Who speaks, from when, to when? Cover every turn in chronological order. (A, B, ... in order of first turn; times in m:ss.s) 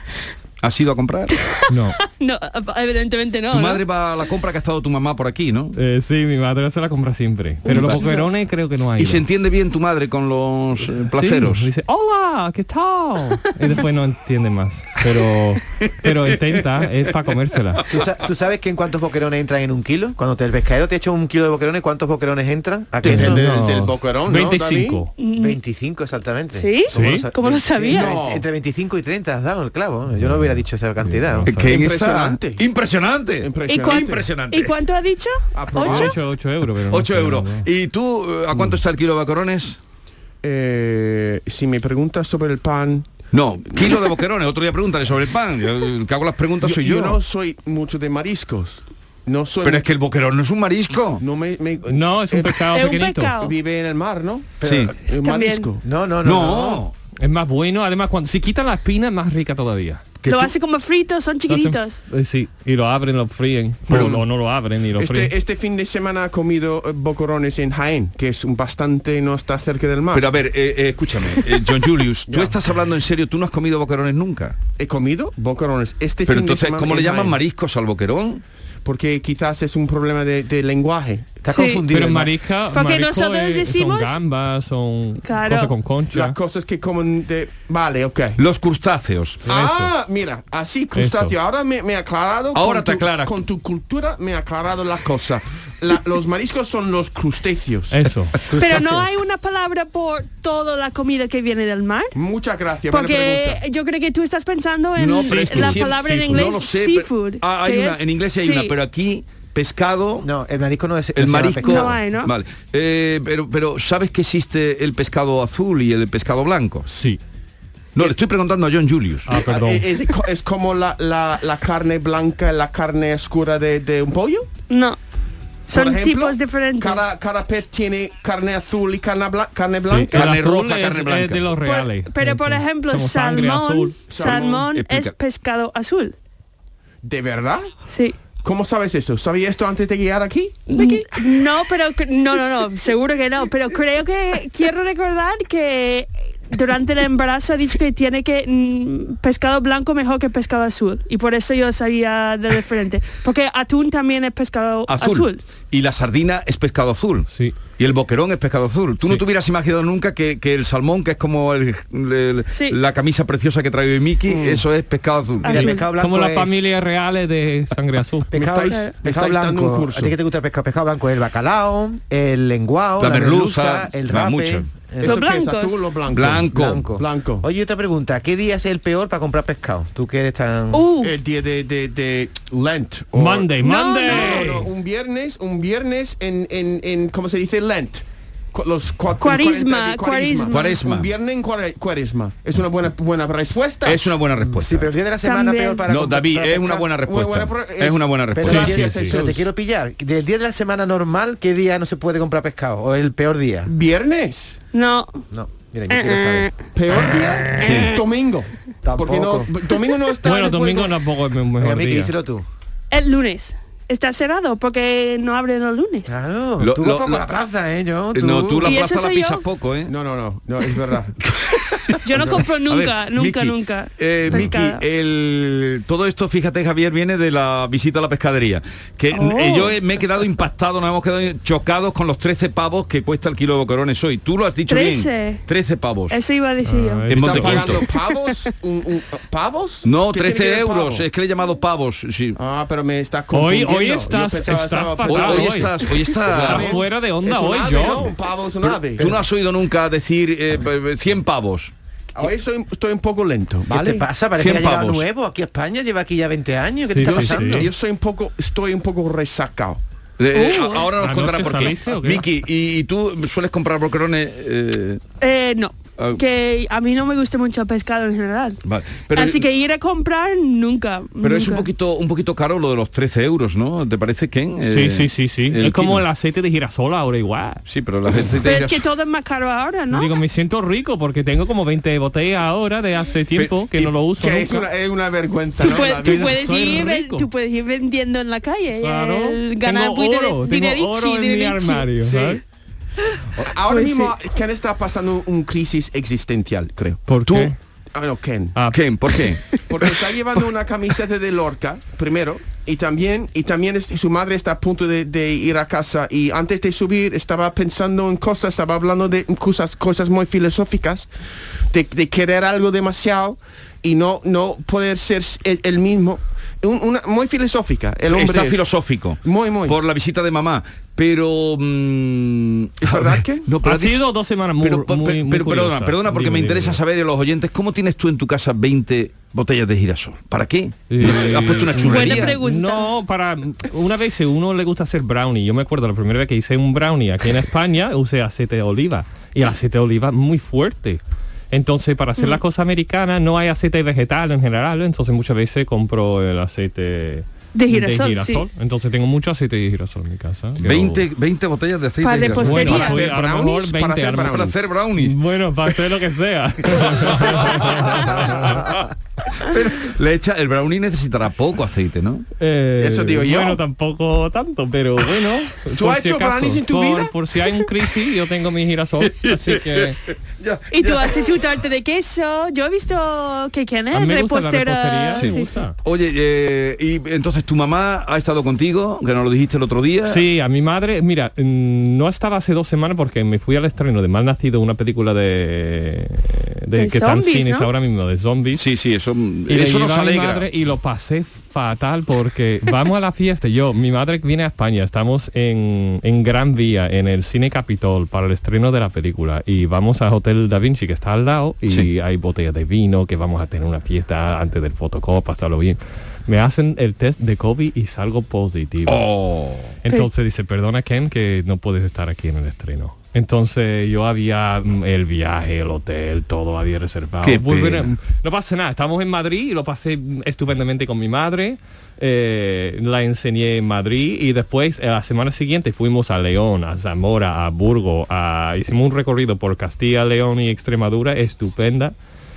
0:00.6-0:01.4 A
0:01.3-0:03.8 B
0:01.7-0:02.0 C
0:03.5-0:05.7 A
0:05.8-0:09.2 C
0:07.6-0:08.3 B
0:07.6-0:08.0 A
0:09.0-0:11.7 A
0:10.9-0:17.8 C
0:17.9-0:23.4 D
0:23.0-0:25.0 E
0:23.0-0:25.1 C
0:25.2-0:25.6 B
0:25.4-0:31.5 D
0:26.5-0:28.2 B
0:26.9-0:27.2 C
0:27.9-0:28.4 E
0:30.2-0:31.7 C
0:31.5-0:34.7 A
0:31.7-0:32.6 E
0:33.4-0:34.2 E
0:33.7-0:36.1 B
0:35.5-0:36.1 E
0:35.8-0:37.7 C
0:36.9-0:39.8 A
0:40.4-0:43.1 E
0:43.3-0:47.2 A
0:46.6-0:49.8 E
0:49.6-0:51.2 A
0:51.2-0:52.6 E
0:51.9-0:53.4 C
0:52.7-0:53.5 B
0:53.4-0:54.5 E
0:54.6-0:54.9 D
0:54.6-0:54.9 A
0:55.0-0:55.8 E
0:55.1-0:55.7 B
0:55.8-0:56.8 D
0:56.2-0:56.9 A
0:57.2-1:00.0 C
1:00.2-1:00.5 A
1:00.3-1:02.0 B
1:01.5-1:05.3 C
1:03.9-1:04.2 E
1:05.0-1:10.3 E
1:10.1-1:14.6 A
1:12.3-1:12.5 E
1:14.8-1:17.4 E
1:16.2-1:18.4 A
1:18.8-1:21.4 E
1:21.4-1:22.3 D
1:21.5-1:21.8 B
1:21.9-1:26.4 C
1:22.7-1:24.2 B
1:25.2-1:25.8 B
1:26.1-1:28.4 E
1:28.4-1:29.4 A
1:29.4-1:29.9 C
1:29.5-1:38.0 E
1:31.0-1:31.3 C
1:32.5-1:33.3 A
1:37.9-1:38.3 C
1:38.5-1:39.1 D
1:38.5-1:42.2 B
1:42.1-1:43.6 E
1:42.9-1:48.7 B
1:45.0-1:50.3 A
1:45.1-1:46.5 C
1:50.2-1:51.9 D
1:51.1-1:56.9 A
1:51.6-1:52.3 B
1:56.9-1:57.2 C
1:57.9-1:59.3 A
1:59.3-1:59.8 C
1:59.3-2:04.5 E
2:04.7-2:05.0 B
2:05.7-2:07.0 B
2:05.7-2:10.4 E
2:09.9-2:14.0 C
2:10.1-2:11.5 A
2:11.6-2:16.1 B
2:14.1-2:14.7 E
2:14.2-2:15.1 A
2:17.0-2:17.7 E
2:17.9-2:18.2 B
2:18.4-2:21.2 E
2:20.7-2:35.4 B
2:34.9-2:45.6 A
2:37.3-2:37.6 C
2:42.5-2:42.8 B
2:44.3-2:44.6 E
2:45.4-2:45.8 B
2:45.4-2:46.5 D
2:45.6-2:48.3 C
2:48.3-2:55.2 D
2:48.3-2:50.1 E
2:53.0-2:54.7 A
2:55.0-2:57.4 E
2:55.0-2:55.9 B
2:56.1-2:56.8 A
2:56.4-3:00.9 D
3:00.7-3:01.1 B
3:01.0-3:03.5 E
3:03.1-3:04.7 C
3:03.6-3:04.5 B
3:04.1-3:14.0 E
3:09.2-3:10.8 B
3:10.5-3:11.1 A
3:13.8-3:14.9 A
3:14.4-3:16.8 D
3:15.2-3:15.8 B
3:15.9-3:18.8 A
3:17.0-3:19.4 E
3:18.3-3:23.7 D
3:18.5-3:19.1 C
3:23.6-3:24.6 E
3:24.7-3:25.2 B
3:25.3-3:26.5 D
3:25.9-3:26.5 B
3:26.7-3:30.9 E
3:27.6-3:27.9 A
3:28.8-3:29.5 D
3:30.2-3:32.1 C
3:31.6-3:32.4 D
3:32.9-3:36.1 B
3:36.1-3:38.8 D
3:36.6-3:37.3 A
3:38.1-3:39.9 A
3:38.6-3:39.4 B
3:39.9-3:41.2 E
3:41.5-3:56.2 A
3:42.0-3:44.8 B
3:49.1-3:49.7 B
3:54.7-3:55.4 B
3:56.1-3:57.1 B
3:56.6-3:57.8 C
3:57.1-3:57.9 A
3:57.1-4:01.0 E
3:59.8-4:02.4 A
4:02.4-4:05.7 E
4:03.3-4:08.1 C
4:05.1-4:06.8 A
4:06.3-4:09.1 E
4:08.6-4:11.7 A
4:12.2-4:14.0 E
4:13.7-4:17.7 D
4:14.4-4:15.0 A
4:16.9-4:17.7 C
4:17.0-4:19.8 E
4:20.2-4:25.0 A
4:20.3-4:20.9 B
4:20.9-4:22.2 C
4:25.2-4:28.6 B
4:28.6-4:29.4 A
4:29.1-4:31.7 B
4:31.2-4:36.0 A
4:34.7-4:37.6 C
4:37.6-4:38.8 A
4:38.4-4:40.2 B
4:39.9-4:44.7 C
4:43.4-4:43.9 A
4:44.2-4:46.4 E
4:45.6-4:51.9 B
4:45.8-4:47.3 C
4:48.8-4:52.4 C
4:52.0-4:52.4 E
4:53.4-4:57.0 E
4:53.7-4:54.1 B
4:57.1-4:57.6 C
4:57.3-4:57.5 A
4:57.9-4:58.6 E
4:58.5-4:58.8 C
4:58.7-4:59.4 A
4:59.7-5:11.1 E
5:11.7-5:18.6 E
5:18.0-5:24.0 A
5:19.2-5:19.8 E
5:22.8-5:23.5 E
5:23.6-5:26.8 C
5:24.6-5:32.4 A
5:30.9-5:41.0 C
5:31.8-5:32.9 B
5:41.5-5:51.0 C
5:47.5-5:48.5 B
5:50.6-5:52.9 A
5:52.0-5:53.0 B
5:52.3-5:54.4 C
5:52.6-5:54.6 E
5:54.2-5:55.2 A
5:55.0-5:58.7 C
5:56.8-5:58.8 A
5:59.3-6:02.2 A
6:02.4-6:10.0 C
6:02.8-6:03.6 E
6:05.8-6:07.1 E
6:09.0-6:11.3 A
6:10.7-6:15.6 B
6:13.9-6:15.7 C
6:15.1-6:20.2 A
6:20.1-6:28.6 C
6:26.7-6:27.7 B
6:28.5-6:30.5 A
6:29.5-6:49.0 C
6:48.9-6:49.8 A
6:49.8-7:11.9 C
6:57.2-6:57.9 A